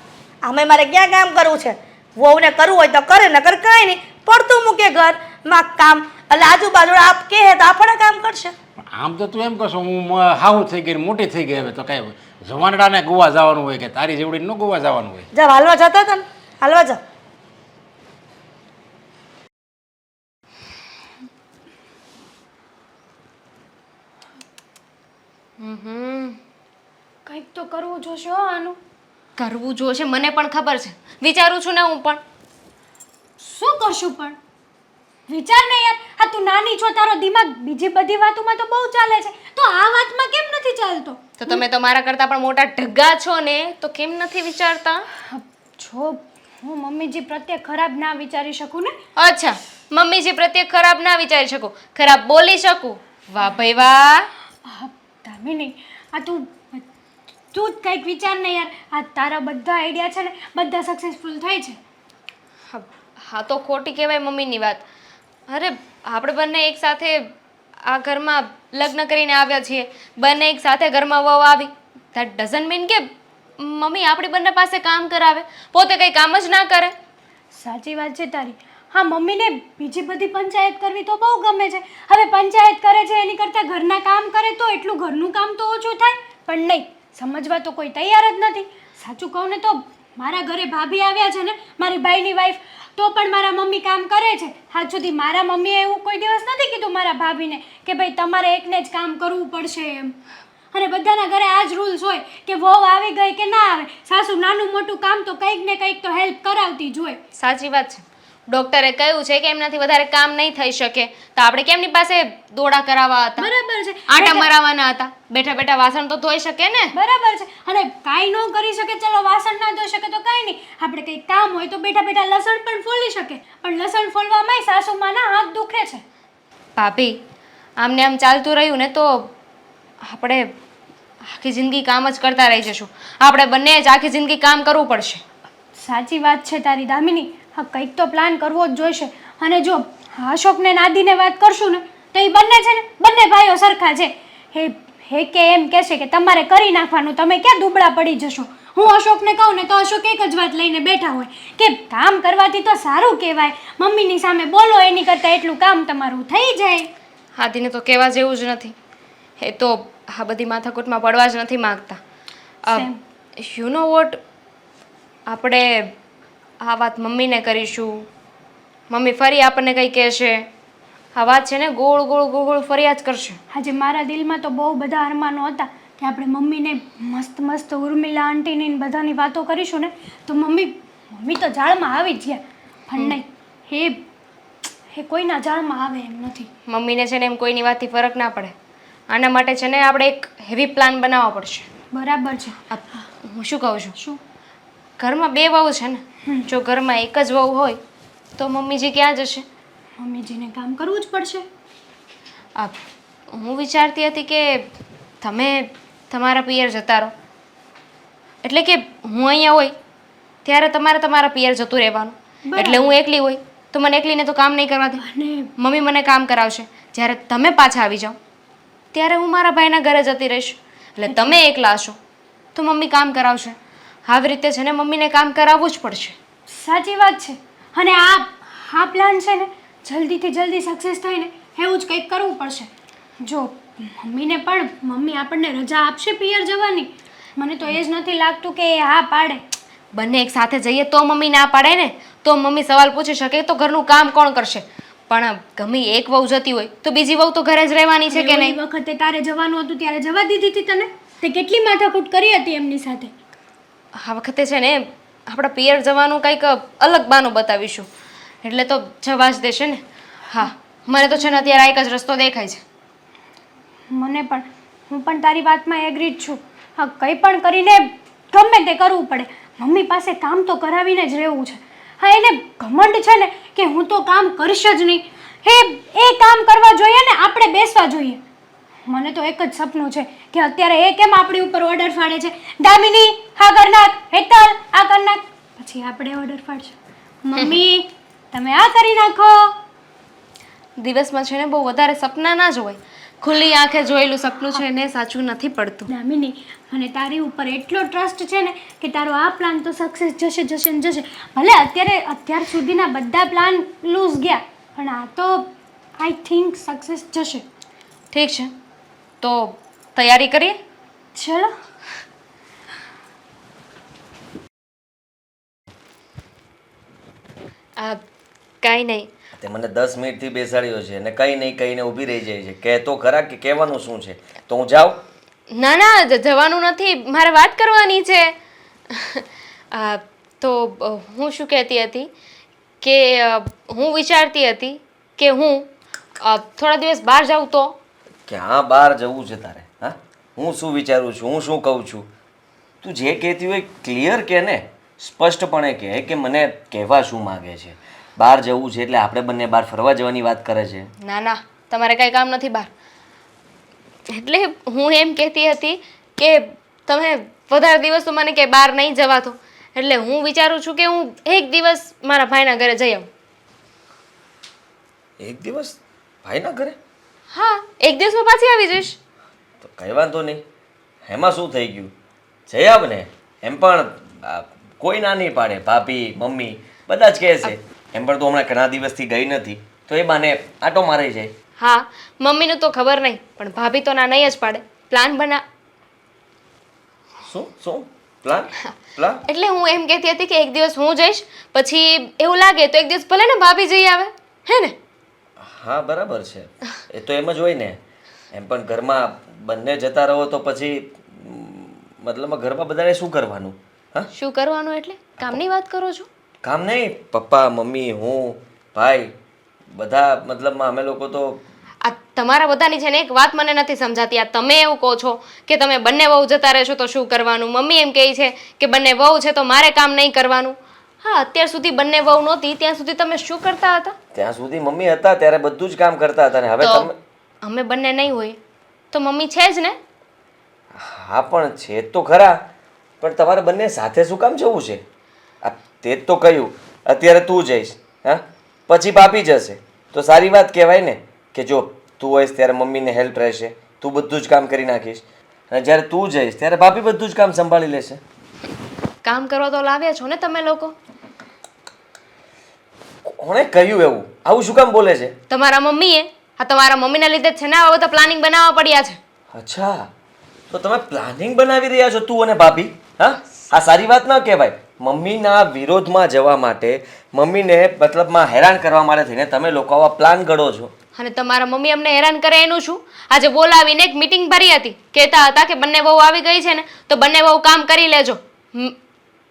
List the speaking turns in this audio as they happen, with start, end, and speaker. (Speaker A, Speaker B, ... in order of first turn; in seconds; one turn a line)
Speaker A: 0.4-8.5
Speaker B: 8.9-15.3
Speaker A: 15.3-17.0
Speaker C: 25.6-26.4
Speaker D: 27.3-28.8
Speaker C: 29.4-32.2
Speaker D: 33.4-34.4
Speaker D: 35.3-41.6
Speaker C: 41.4-45.0
Speaker D: 45.2-49.0
Speaker C: 49.2-54.3
Speaker D: 54.7-56.8
Speaker D: 57.5-61.8
Speaker C: 62.7-64.8
Speaker C: 65.5-67.3
Speaker C: 67.9-73.1
Speaker C: 73.6-76.9
Speaker D: 77.5-100.2
Speaker D: 100.7-107.2
Speaker C: 107.4-113.5
Speaker D: 113.4-114.5
Speaker C: 114.1-116.9
Speaker D: 116.9-126.0
Speaker C: 126.8-127.2
Speaker C: 127.8-129.3
Speaker C: 130.1-130.5
Speaker C: 131.3-135.2
Speaker D: 135.8-156.9
Speaker C: 157.4-158.7
Speaker C: 159.4-162.0
Speaker D: 162.7-163.0
Speaker C: 163.4-164.2
Speaker C: 165.3-165.9
Speaker C: 166.6-168.1
Speaker C: 168.9-170.5
Speaker C: 171.2-173.4
Speaker D: 173.5-184.0
Speaker D: 184.9-186.5
Speaker C: 186.7-188.5
Speaker C: 189.1-191.7
Speaker D: 191.9-193.1
Speaker C: 192.7-193.9
Speaker C: 195.0-197.8
Speaker C: 198.4-199.5
Speaker D: 200.0-201.4
Speaker C: 203.3-204.7
Speaker C: 205.2-207.1
Speaker C: 208.4-209.8
Speaker C: 210.4-215.0
Speaker D: 212.4-212.9
Speaker D: 215.0-215.5
Speaker C: 215.6-218.2
Speaker C: 218.9-222.0
Speaker D: 221.1-221.4
Speaker C: 222.6-226.2
Speaker D: 226.5-232.7
Speaker D: 233.2-239.4
Speaker C: 239.9-248.6
Speaker D: 248.1-253.1
Speaker C: 254.0-257.9
Speaker C: 258.4-262.6
Speaker D: 263.9-278.2
Speaker D: 278.9-289.6
Speaker C: 287.4-287.6
Speaker C: 290.8-295.9
Speaker D: 295.9-307.4
Speaker C: 308.1-308.5
Speaker C: 309.2-310.6
Speaker D: 311.1-311.5
Speaker C: 318.6-319.1
Speaker E: 319.4-325.0
Speaker C: 325.5-328.3
Speaker C: 328.9-332.1
Speaker C: 332.8-335.7
Speaker C: 336.2-337.8
Speaker E: 338.3-342.1
Speaker E: 342.8-350.9
Speaker C: 351.0-352.7
Speaker C: 354.1-363.1
Speaker E: 365.2-366.8
Speaker C: 367.3-369.0
Speaker E: 369.6-370.4
Speaker E: 371.1-371.9
Speaker E: 372.5-381.3
Speaker C: 381.6-385.4
Speaker E: 387.3-389.2
Speaker C: 389.2-394.8
Speaker E: 395.4-397.8
Speaker E: 398.3-404.1
Speaker C: 404.1-406.1
Speaker E: 406.4-409.1
Speaker E: 409.7-411.4
Speaker C: 411.8-423.9
Speaker E: 424.1-426.9
Speaker C: 426.6-426.9
Speaker C: 427.4-428.4
Speaker C: 428.9-429.8
Speaker E: 430.8-432.4
Speaker E: 433.0-434.8
Speaker E: 435.4-448.0
Speaker C: 449.0-450.7
Speaker E: 453.1-455.2
Speaker C: 455.3-459.0
Speaker E: 459.3-459.9
Speaker E: 460.5-470.7
Speaker C: 471.0-478.8